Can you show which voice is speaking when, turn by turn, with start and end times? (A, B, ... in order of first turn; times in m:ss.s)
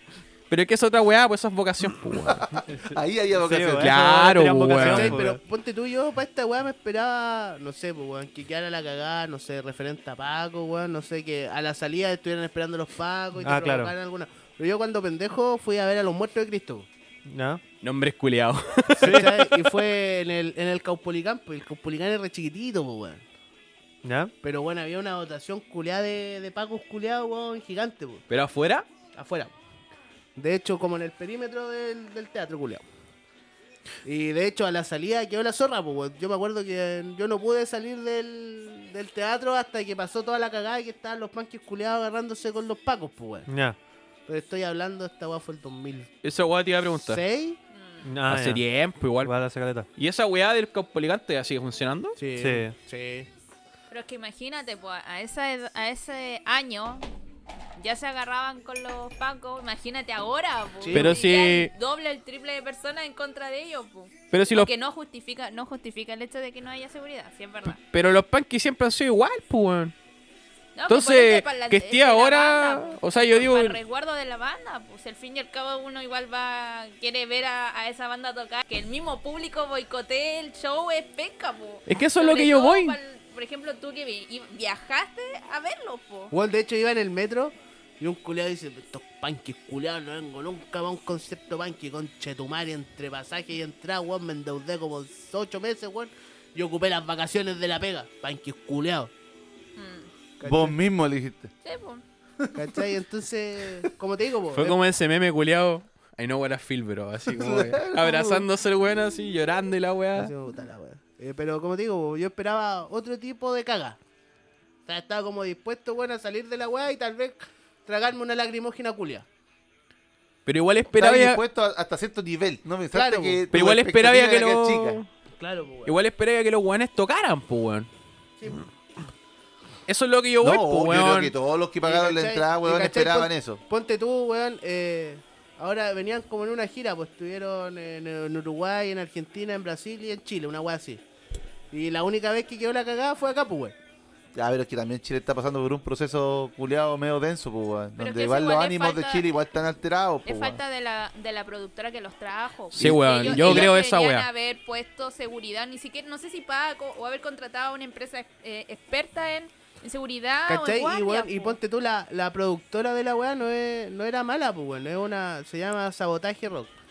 0:00.5-0:02.4 A
0:02.2-0:03.9 B
0:02.6-0:05.4 C
0:03.8-0:05.2 A
0:04.8-0:16.9 D
0:13.4-0:13.9 C
0:17.3-0:17.6 C
0:17.8-0:19.6 A
0:19.0-0:23.2 D
0:19.0-0:19.3 C
0:24.0-0:24.3 C
0:24.4-0:28.2 D
0:28.3-0:28.9 A
0:29.1-0:29.5 D
0:30.4-0:32.8 D
0:34.0-0:43.5 D
0:43.5-0:43.8 C
0:44.3-0:46.1 D
0:46.2-0:47.2 A
0:47.0-0:47.6 D
0:47.7-0:48.0 E
0:48.0-0:48.6 C
0:48.3-0:49.3 A
0:49.2-0:49.9 C
0:50.0-0:52.2 A
0:52.2-0:53.3 D
0:52.4-0:52.7 C
0:53.9-0:57.0 E
0:57.8-1:07.8 E
1:00.8-1:01.2 D
1:00.9-1:01.7 A
1:04.3-1:04.7 A
1:07.9-1:09.9 A
1:10.7-1:26.3 E
1:10.9-1:13.8 A
1:21.9-1:23.0 A
1:26.3-1:39.1 D
1:39.8-1:40.1 E
1:40.4-1:40.8 D
1:40.4-1:41.5 B
1:41.6-1:42.0 E
1:42.4-1:42.9 B
1:42.5-1:44.8 D
1:44.5-1:50.3 A
1:47.3-1:48.4 B
1:50.2-1:54.0 D
1:54.8-1:59.2 D
2:00.4-2:01.4 A
2:00.9-2:05.0 B
2:02.9-2:03.4 D
2:03.5-2:05.1 A
2:05.4-2:05.9 D
2:05.8-2:07.9 A
2:08.4-2:08.7 D
2:09.9-2:11.3 A
2:10.4-2:13.6 B
2:11.8-2:21.0 D
2:21.7-2:23.8 D
2:24.3-2:30.6 B
2:28.0-2:29.3 E
2:30.2-2:41.6 E
2:32.7-2:33.7 B
2:32.7-2:34.3 A
2:40.5-2:46.7 D